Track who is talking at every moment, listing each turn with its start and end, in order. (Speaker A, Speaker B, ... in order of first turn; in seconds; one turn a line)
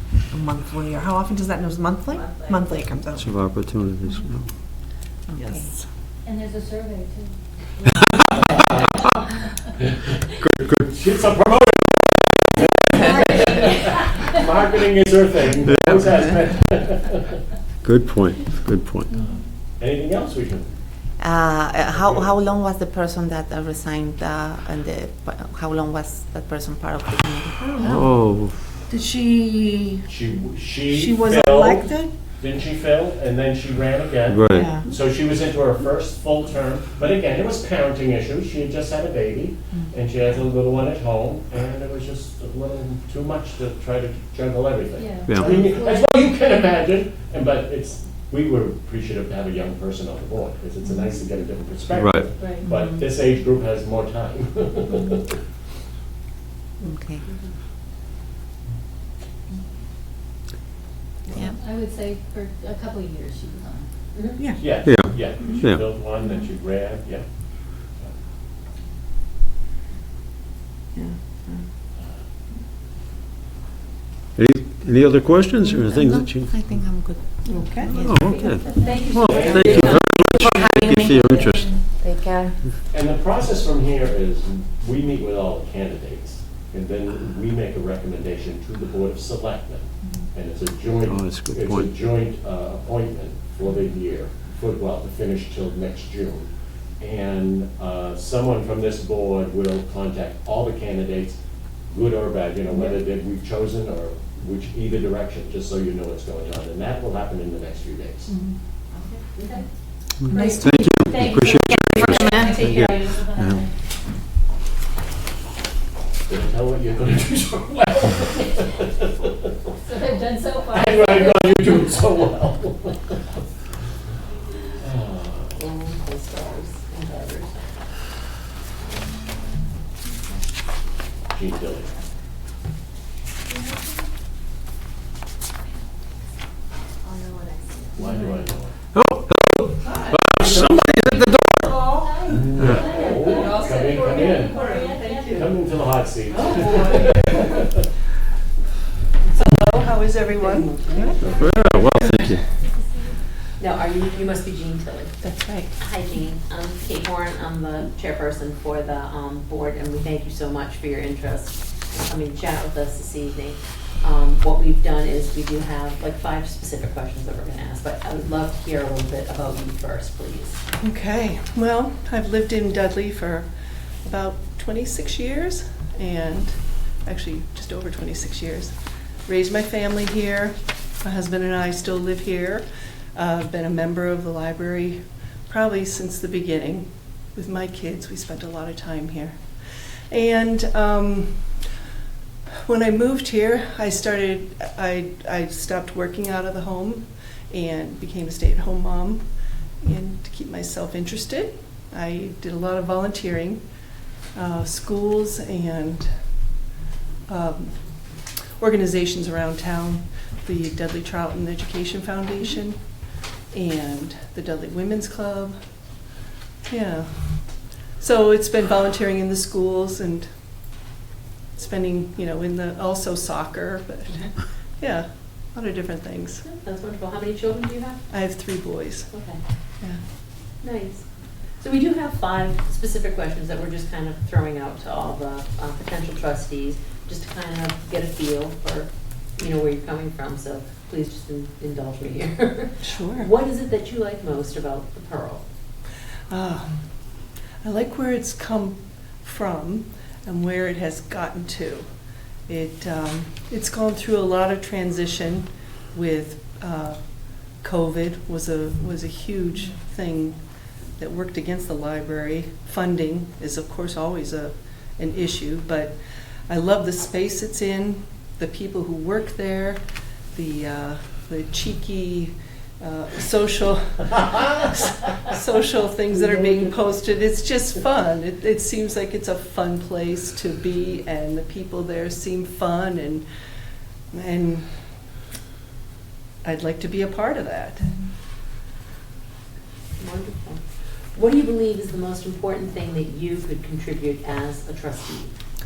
Speaker A: 0.2-3.1
Speaker B: 2.1-2.8
Speaker C: 3.1-4.5
Speaker A: 5.3-5.8
Speaker D: 6.2-8.6
Speaker E: 8.4-9.0
Speaker C: 10.4-10.9
Speaker E: 10.7-17.4
Speaker C: 15.7-16.2
Speaker C: 17.8-19.1
Speaker E: 19.1-20.7
Speaker A: 21.3-21.7
Speaker F: 21.7-27.4
Speaker E: 21.9-22.3
Speaker A: 27.1-28.0
Speaker C: 27.8-28.6
Speaker A: 28.9-30.0
Speaker E: 30.1-55.2
Speaker A: 30.9-32.1
Speaker C: 34.3-34.7
Speaker D: 45.0-46.2
Speaker C: 45.3-45.6
Speaker C: 51.9-52.3
Speaker D: 61.4-63.9
Speaker B: 64.1-64.4
Speaker E: 64.5-67.2
Speaker C: 64.8-65.9
Speaker C: 74.3-76.5
Speaker F: 75.7-78.6
Speaker A: 76.1-77.0
Speaker G: 77.5-77.9
Speaker C: 77.9-81.8
Speaker B: 78.2-79.9
Speaker D: 78.6-79.1
Speaker E: 79.2-80.0
Speaker F: 79.8-82.2
Speaker A: 82.0-82.4
Speaker E: 82.9-96.5
Speaker C: 91.0-91.9
Speaker E: 97.0-101.4
Speaker E: 101.9-108.3
Speaker B: 102.7-103.0
Speaker D: 108.3-108.5
Speaker B: 109.3-109.6
Speaker D: 109.4-109.7
Speaker C: 110.2-113.7
Speaker D: 110.2-113.7
Speaker F: 111.7-112.6
Speaker E: 116.3-119.3
Speaker D: 119.8-122.0
Speaker E: 120.7-123.2
Speaker E: 124.8-125.6
Speaker B: 125.5-127.9
Speaker B: 128.8-129.5
Speaker B: 130.0-130.4
Speaker E: 131.3-131.9
Speaker D: 133.5-134.1
Speaker D: 137.1-137.7
Speaker E: 137.9-138.7
Speaker C: 138.9-142.9
Speaker E: 140.2-140.9
Speaker D: 141.7-145.4
Speaker E: 142.3-144.7
Speaker B: 142.8-144.2
Speaker G: 144.1-145.4
Speaker E: 145.3-147.8
Speaker B: 146.3-147.2
Speaker A: 146.6-147.0
Speaker G: 149.3-152.3
Speaker B: 150.3-151.8
Speaker C: 151.2-152.4
Speaker D: 151.2-151.5
Speaker D: 152.6-153.2
Speaker B: 153.6-170.6
Speaker G: 155.2-155.5
Speaker G: 170.8-173.5
Speaker G: 174.0-178.7
Speaker G: 179.2-189.4
Speaker G: 190.1-191.6
Speaker G: 192.7-199.3
Speaker G: 199.8-203.6
Speaker G: 204.3-206.1
Speaker G: 207.3-207.9
Speaker G: 208.6-212.8
Speaker G: 213.5-215.6
Speaker G: 216.7-220.3
Speaker G: 221.5-226.4
Speaker B: 226.4-228.0
Speaker G: 228.1-229.1
Speaker B: 229.1-229.4
Speaker B: 230.6-231.0
Speaker B: 231.6-245.4
Speaker G: 242.8-243.3
Speaker G: 246.3-246.7
Speaker G: 247.6-251.9
Speaker G: 252.5-260.4
Speaker G: 261.0-266.0
Speaker G: 266.5-283.2
Speaker B: 276.1-276.7
Speaker G: 284.1-284.7
Speaker G: 286.4-287.9
Speaker B: 290.0-290.6
Speaker B: 291.1-295.3